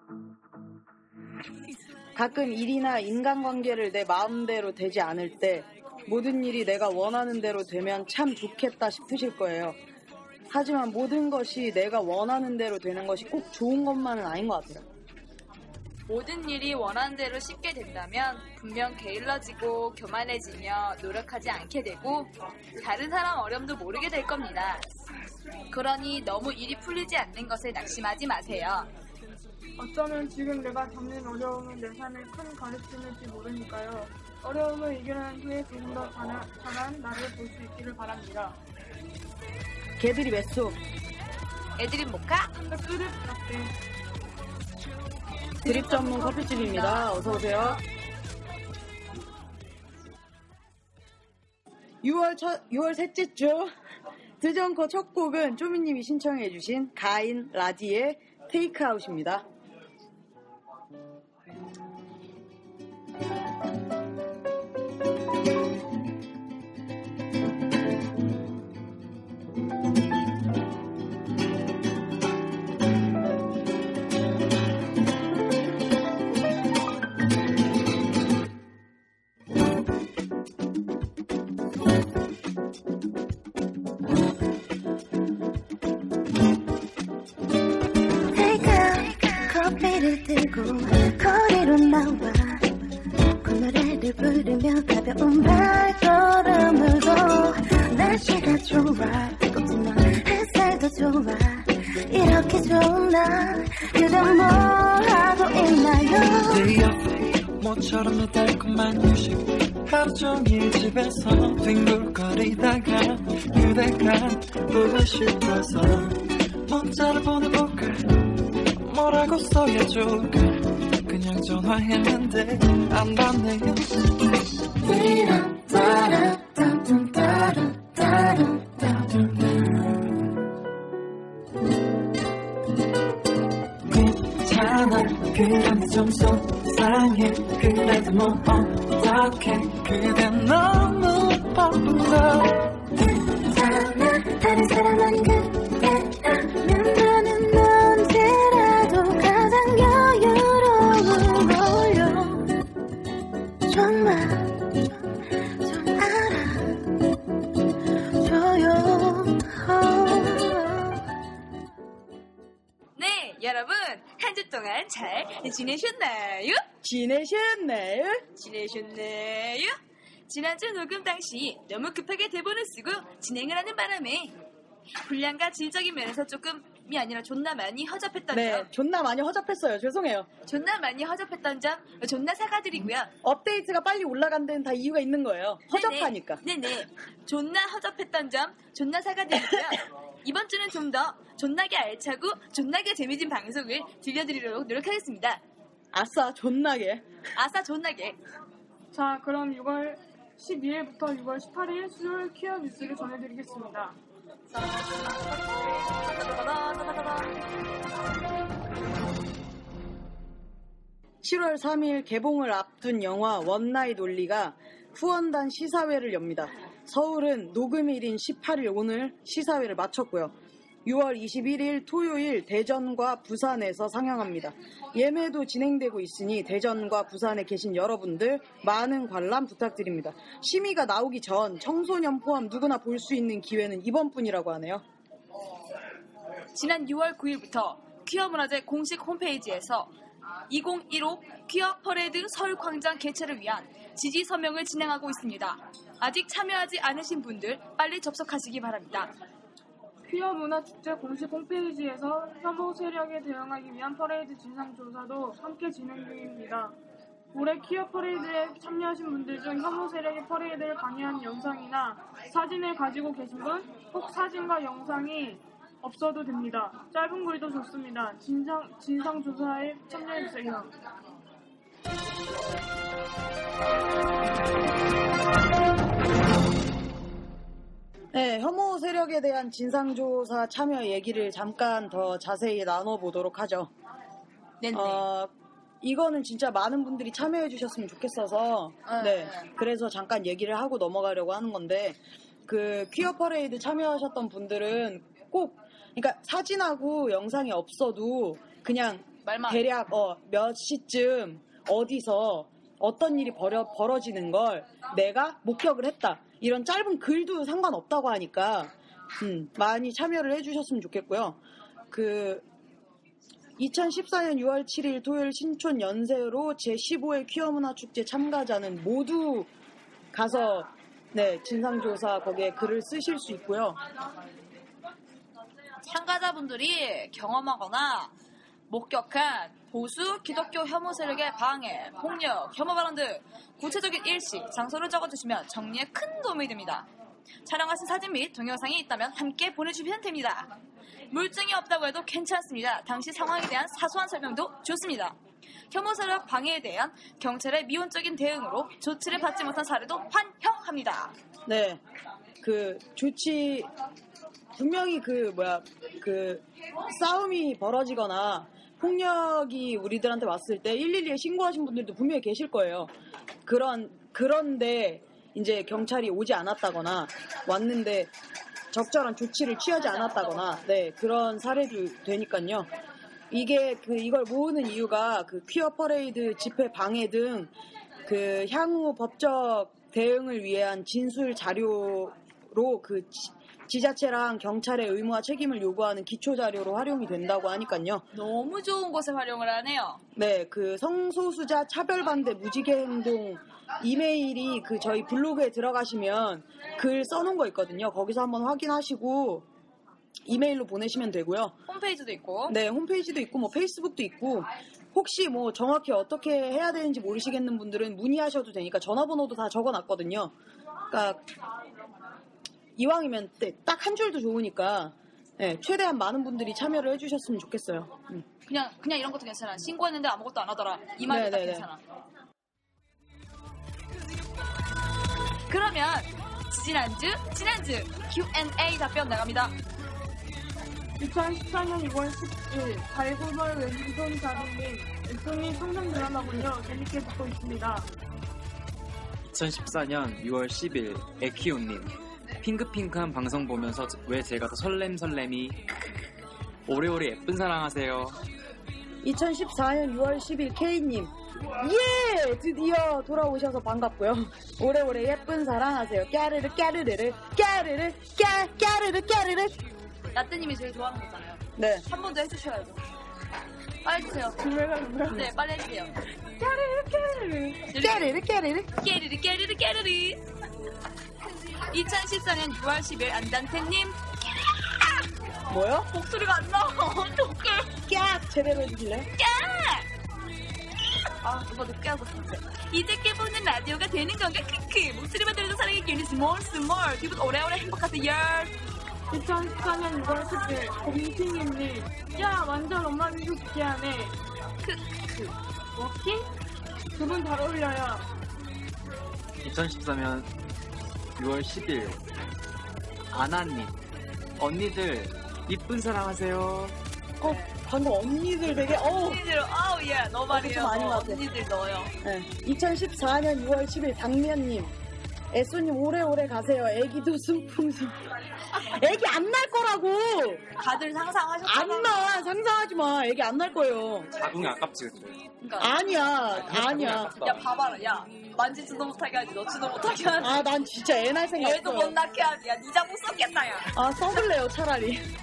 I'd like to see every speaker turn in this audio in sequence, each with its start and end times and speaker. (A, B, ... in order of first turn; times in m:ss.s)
0:02.2-0:09.8 A
0:10.5-0:14.8 A
0:16.1-0:24.8 B
0:25.7-0:28.9 B
0:29.8-0:38.6 C
0:40.0-0:40.8 A
0:41.8-0:42.5 B
0:42.6-0:43.7 C
0:45.6-0:47.8 C
0:45.6-0:47.8 A
0:52.0-0:53.7 A
0:54.4-0:59.4 A
1:28.3-1:32.7 D
1:33.4-1:46.7 D
1:46.5-1:58.1 E
1:58.8-2:04.3 E
2:04.8-2:10.2 E
2:05.3-2:05.5 D
2:13.9-2:22.9 E
2:23.5-2:32.6 D
2:33.7-2:35.0 D
2:35.6-2:36.9 D
2:38.2-2:41.1 D
2:43.0-2:46.6 B
2:46.8-2:48.2 A
2:48.4-2:49.7 B
2:50.3-2:54.4 B
2:55.0-2:58.7 B
2:58.3-3:00.3 A
3:00.4-3:03.1 B
3:03.2-3:06.4 A
3:05.7-3:15.4 B
3:15.9-3:17.0 A
3:17.4-3:18.2 B
3:18.9-3:24.0 C
3:24.5-3:27.4 B
3:31.2-3:40.3 A
3:40.8-3:54.8 A
3:56.5-3:59.9 B
4:00.5-4:09.1 B
4:10.0-4:16.8 C
4:17.3-4:30.7 C
4:38.1-4:43.7 A
4:44.6-4:45.0 B
4:44.7-5:11.4 A
4:48.8-4:49.5 B
4:59.2-4:59.6 B
5:11.9-5:12.4 A
5:13.6-5:19.5 A
5:20.1-5:23.8 A
5:25.8-5:28.1 B
5:28.7-5:36.9 B
5:37.4-5:40.5 B
5:41.1-5:45.2 B
5:45.7-5:51.1 B
5:51.4-5:51.8 A
5:52.4-5:53.7 A
5:54.5-6:02.9 A
6:03.4-6:08.1 A
6:08.7-6:12.7 A
6:09.7-6:10.6 B
6:13.3-6:17.5 A
6:18.0-6:28.0 A
6:28.1-6:30.0 B
6:30.1-6:39.4 A
6:40.2-6:41.6 A
6:41.7-6:42.6 B
6:42.5-6:50.3 A
6:50.9-6:51.2 A
6:52.8-6:58.2 A
6:58.5-7:01.8 B
7:01.0-7:01.7 A
7:05.5-7:09.6 B
7:11.0-7:17.9 C
7:19.2-7:25.6 F
7:26.7-7:28.2 F
7:29.0-7:39.6 A
7:40.1-7:42.8 B
7:41.6-7:41.8 A
7:43.8-7:45.9 B
7:44.6-7:45.0 C
7:46.4-7:48.7 A
7:47.7-7:48.1 B
7:48.7-7:50.2 B
7:51.7-7:54.0 B
7:54.6-7:55.0 B
7:55.5-7:55.9 A
7:55.9-7:57.8 B
7:57.9-7:59.1 A
7:59.2-7:59.9 B
8:01.2-8:08.5 B
8:09.1-8:14.2 C
8:14.6-8:15.4 B
8:15.8-8:16.3 C
8:16.9-8:18.0 C
8:19.4-8:20.3 F
8:21.2-8:22.0 F
8:23.1-8:23.7 F
8:24.4-8:26.8 F
8:27.2-8:29.2 A
8:27.2-8:27.6 B
8:28.7-8:31.9 B
8:30.3-8:31.2 A
8:32.0-8:34.7 A
8:35.3-8:38.0 A
8:38.6-8:40.4 A
8:40.6-8:42.3 B
8:41.4-8:44.2 A
8:44.1-8:45.2 F
8:45.4-8:50.4 B
8:45.6-8:47.2 A
8:46.3-8:47.4 F
8:50.2-8:52.0 A
8:51.4-8:54.2 B
8:53.7-8:55.1 A